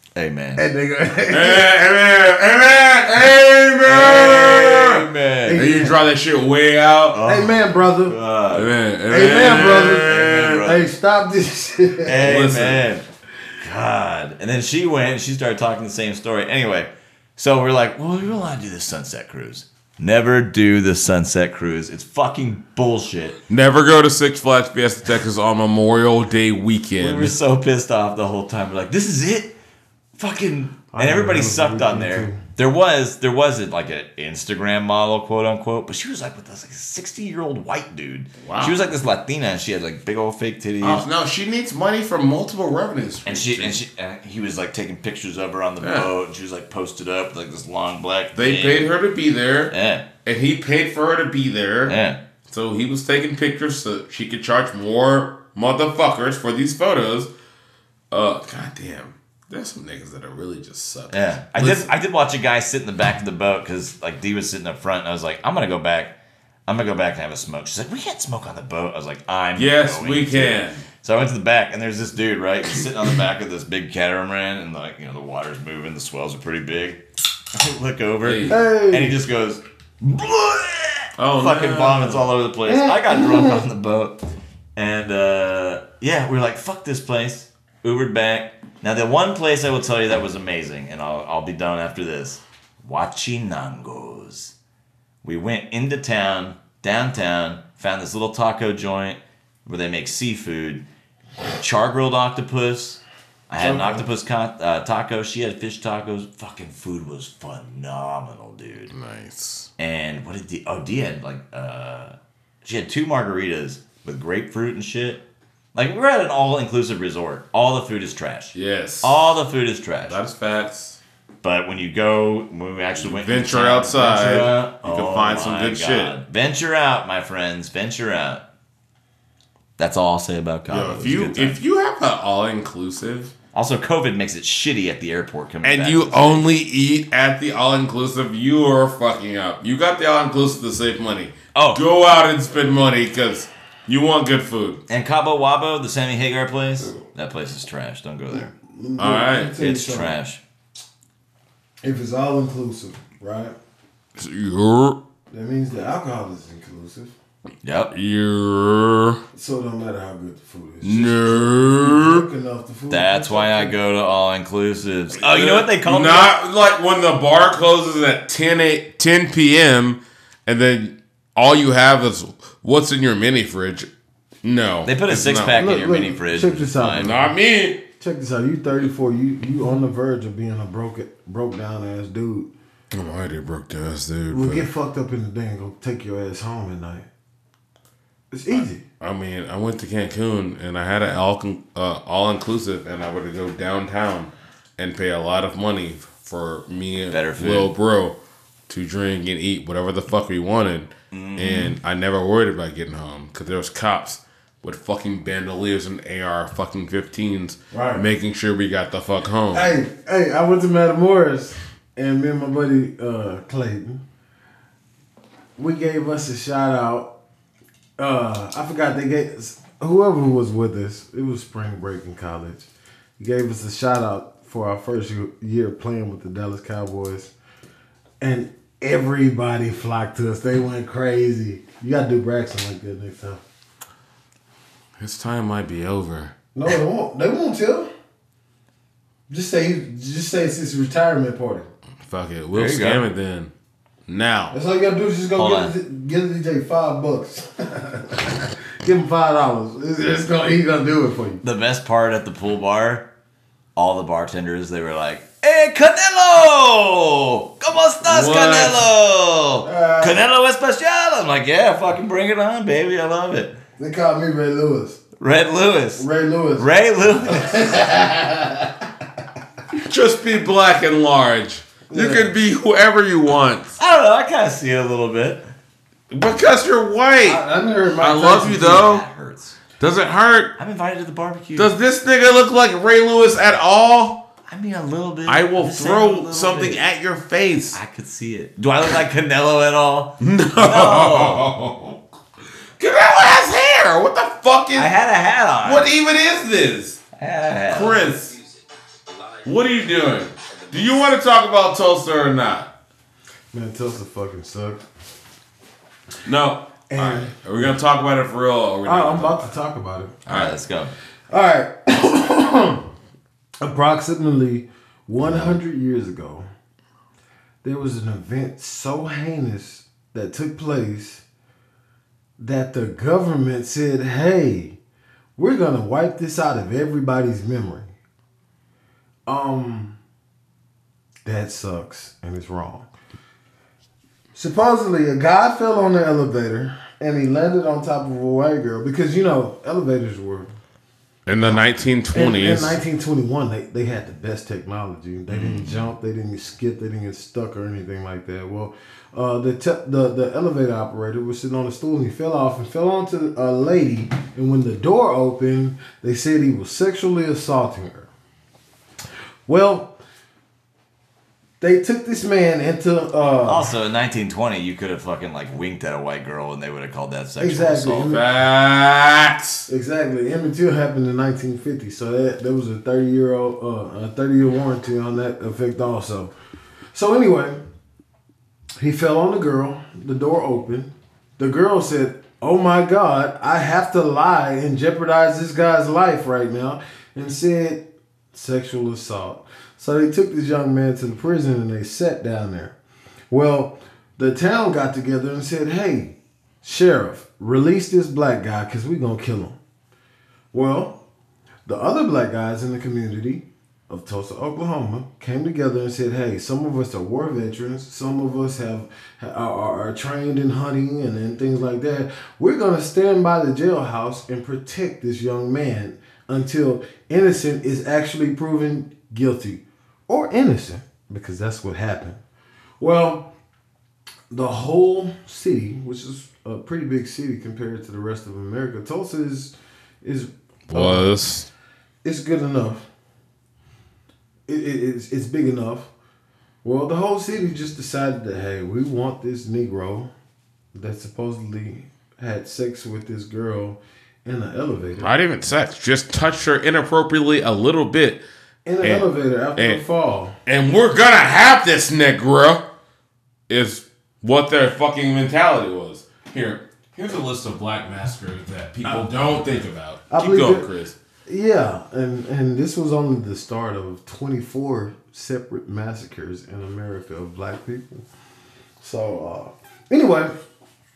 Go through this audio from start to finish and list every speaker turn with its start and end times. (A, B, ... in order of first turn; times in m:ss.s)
0:00.2-0:00.6 A
0:00.6-0:01.7 B
0:01.3-0:07.2 C
0:03.8-0:05.6 A
0:05.4-0:06.0 B
0:07.1-0:10.9 A
0:07.2-0:08.1 B
0:08.5-0:10.5 C
0:09.1-0:12.4 B
0:12.0-0:13.0 A
0:12.2-0:12.9 C
0:13.6-0:23.4 A
0:23.5-0:27.3 C
0:27.0-0:29.5 A
0:30.2-0:41.0 A
0:30.9-0:32.4 B
0:38.4-0:38.8 C
0:40.8-0:43.8 C
0:43.2-0:48.9 A
0:45.8-0:46.1 C
0:48.3-0:49.7 C
0:49.7-0:50.0 A
0:50.2-0:52.0 C
0:51.8-0:52.2 A
0:52.5-0:57.3 C
0:58.1-1:01.9 C
1:01.1-1:06.1 A
1:06.7-1:17.0 A
1:09.6-1:10.8 C
1:17.5-1:24.2 A
1:18.2-1:18.5 C
1:18.5-1:19.2 B
1:21.2-1:22.3 C
1:22.6-1:23.6 B
1:24.8-1:34.5 A
1:35.2-1:40.8 A
1:41.5-1:48.9 A
1:43.6-1:44.0 B
1:48.9-1:49.7 C
1:49.8-1:55.2 A
1:55.7-2:00.2 A
1:58.5-1:59.4 C
2:00.1-2:01.0 C
2:01.4-2:08.4 A
2:03.0-2:06.1 C
2:09.8-2:11.6 A
2:10.7-2:13.3 C
2:13.5-2:16.5 A
2:15.6-2:24.8 C
2:21.5-2:21.8 A
2:24.9-2:28.5 A
2:28.3-2:30.1 B
2:29.0-2:29.6 C
2:29.6-2:30.4 A
2:31.8-2:33.5 B
2:34.2-2:35.0 C
2:35.3-2:37.1 B
2:37.6-2:37.9 A
2:37.9-2:39.2 C
2:39.3-2:43.7 B
2:40.8-2:42.2 C
2:42.9-2:46.3 A
2:45.2-2:53.9 C
2:54.4-2:55.7 C
2:54.8-2:57.1 A
2:55.5-2:57.3 B
2:56.9-2:57.8 C
2:58.0-3:02.5 B
3:02.9-3:04.7 C
3:04.3-3:07.1 B
3:08.3-3:08.8 B
3:09.0-3:18.2 C
3:17.1-3:17.7 A
3:18.7-3:29.7 C
3:21.1-3:21.7 A
3:27.7-3:28.0 B
3:29.5-3:34.0 B
3:35.6-3:37.1 B
3:38.0-3:47.3 B
3:48.2-3:53.4 B
3:55.0-3:56.3 C
3:56.5-3:57.9 B
3:59.3-4:01.7 B
4:02.0-4:03.5 C
4:02.5-4:03.0 A
4:04.1-4:04.5 C
4:04.5-4:11.4 B
4:05.4-4:05.7 A
4:11.4-4:13.1 A
4:13.8-4:23.6 A
4:18.0-4:18.8 C
4:19.6-4:20.2 B
4:23.8-4:25.0 B
4:25.2-4:26.0 A
4:26.0-4:26.7 B
4:26.6-4:27.6 A
4:27.2-4:28.9 B
4:29.7-4:33.8 C
4:31.9-4:32.3 B
4:33.8-4:35.4 A
4:36.1-4:37.4 C
4:37.2-4:38.9 B
4:38.0-4:39.0 C
4:38.6-4:39.6 A
4:39.8-4:40.5 C
4:40.6-4:41.7 A
4:41.6-4:44.2 C
4:44.5-4:46.8 A
4:45.3-4:47.8 C
4:47.7-4:51.5 A
4:50.2-4:52.0 C
4:52.8-4:54.9 C
4:54.7-4:55.9 A
4:55.6-4:57.0 C
4:57.2-4:58.2 A
4:57.7-4:58.4 C
4:59.4-5:02.7 C
5:03.5-5:04.8 B
5:06.2-5:09.5 C
5:06.9-5:07.7 B
5:08.8-5:10.2 B
5:10.3-5:10.6 C
5:10.3-5:10.9 A
5:11.3-5:12.8 B
5:13.6-5:16.4 B
5:15.2-5:15.5 C
5:17.6-5:21.2 B
5:22.4-5:24.8 B
5:25.4-5:27.9 B
5:29.3-5:30.0 B
5:31.2-5:32.9 B
5:34.3-5:40.5 B
5:41.2-5:42.8 C
5:41.4-5:58.1 B
5:59.4-5:59.9 B
6:01.6-6:03.7 B
6:03.4-6:08.1 A
6:07.4-6:08.2 B
6:08.0-6:09.7 C
6:09.7-6:16.3 B
6:16.9-6:17.6 B
6:18.8-6:32.8 B
6:33.3-6:39.6 B
6:40.5-6:41.0 B
6:41.6-7:02.2 B
7:02.8-7:03.3 B
7:04.3-7:11.1 B
7:10.7-7:11.5 C
7:12.0-7:12.8 B
7:14.5-7:15.9 B
7:16.6-7:20.1 B
7:20.7-7:25.1 B
7:25.0-7:28.2 C
7:28.6-7:30.3 B
7:28.8-7:29.8 C
7:30.4-7:32.6 C
7:33.5-7:40.9 C
7:38.8-7:39.1 B
7:40.1-7:40.7 B
7:41.2-7:48.0 B
7:48.8-7:50.4 B